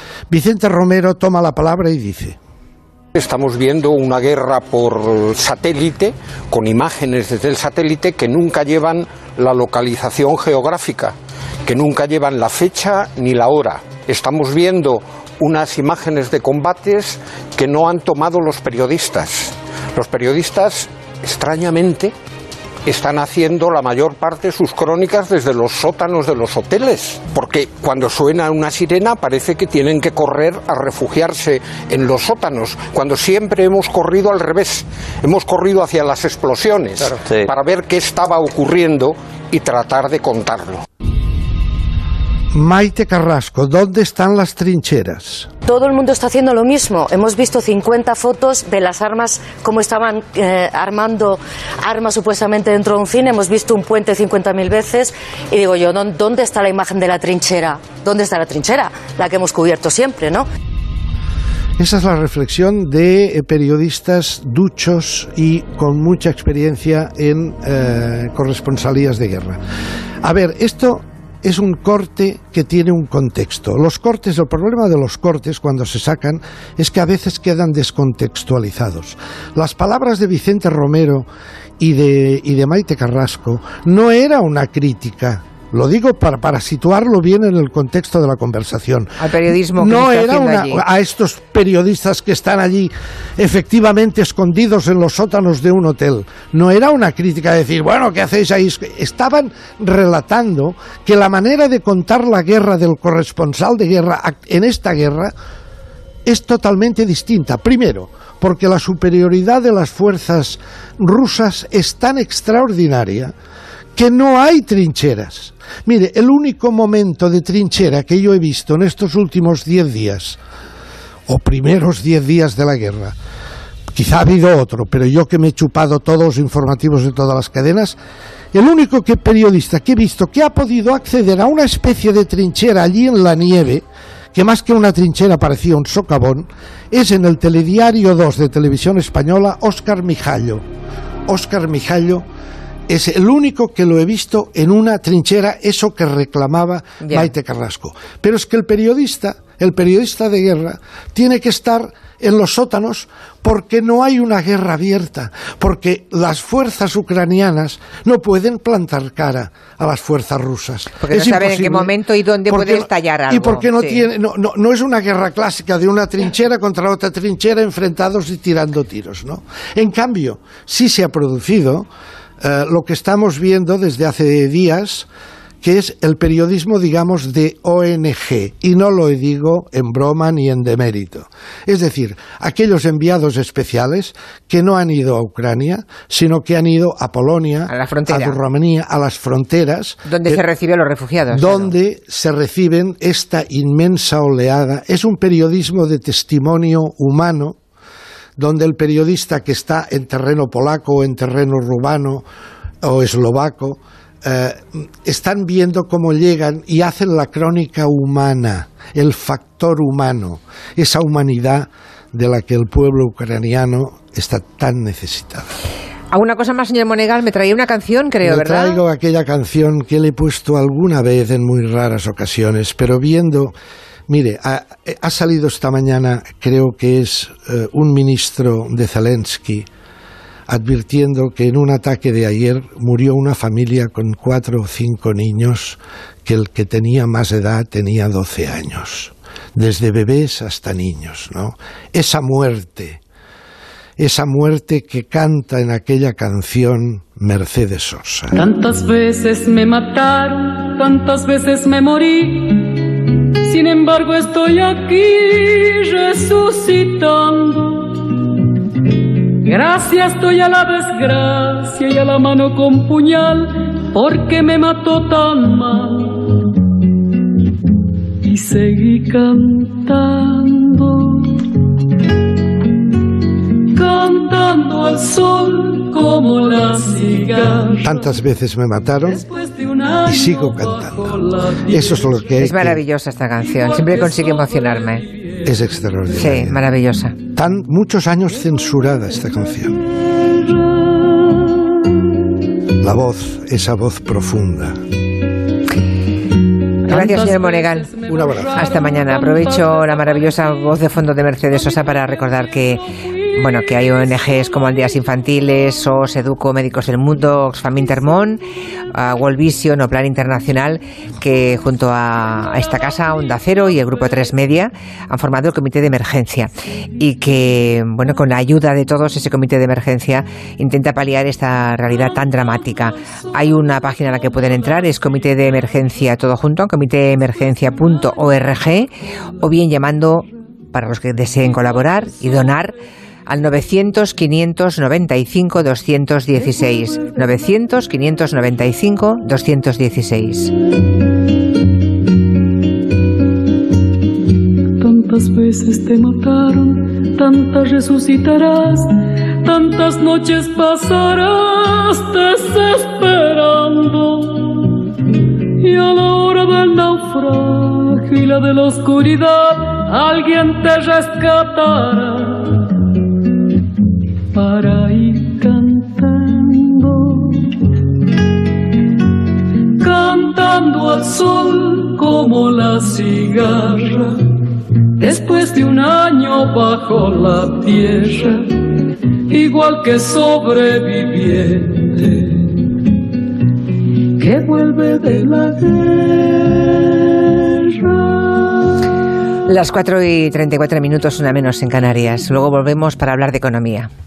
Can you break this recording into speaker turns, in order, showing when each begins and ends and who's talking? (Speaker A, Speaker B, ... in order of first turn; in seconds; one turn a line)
Speaker A: 0.3-2.4
Speaker B: 3.1-22.1
Speaker B: 22.9-40.8
Speaker A: 42.5-45.5
Speaker C: 45.7-60.5
Speaker A: 61.8-69.6
Speaker A: 70.2-81.3
Speaker A: 81.8-105.3
Speaker D: 89.2-90.8
Speaker A: 106.3-113.3
Speaker A: 114.0-120.4
Speaker A: 121.3-123.2
Speaker A: 123.9-128.0
Speaker A: 128.5-140.6
Speaker A: 141.3-142.3
Speaker A: 142.9-161.9
Speaker D: 147.0-147.3
Speaker D: 161.0-164.1
Speaker A: 162.5-171.9
Speaker A: 172.4-175.1
Speaker A: 175.6-190.4
Speaker D: 187.7-188.4
Speaker D: 190.1-191.7
Speaker A: 191.3-197.6
Speaker A: 198.4-202.3
Speaker A: 202.8-215.5
Speaker D: 216.1-218.8
Speaker A: 218.2-223.6
Speaker A: 224.1-229.7
Speaker A: 230.5-243.0
Speaker A: 244.0-248.4
Speaker E: 248.3-258.3
Speaker E: 259.4-266.4
Speaker E: 268.2-271.5
Speaker E: 273.6-277.9
Speaker A: 277.8-279.3
Speaker E: 279.3-280.6
Speaker A: 280.0-282.8
Speaker D: 282.4-285.1
Speaker A: 285.4-286.6
Speaker D: 286.1-287.2
Speaker A: 287.3-289.8
Speaker E: 290.6-291.6
Speaker A: 292.8-294.8
Speaker D: 296.9-297.9
Speaker E: 296.9-297.9
Speaker A: 298.1-298.7
Speaker D: 298.5-308.4
Speaker D: 308.9-332.8
Speaker D: 333.3-340.5
Speaker E: 344.8-354.9
Speaker E: 355.6-362.8
Speaker E: 364.3-367.7
Speaker E: 369.8-374.4
Speaker E: 375.0-382.6
Speaker E: 384.2-388.6
Speaker D: 389.5-393.9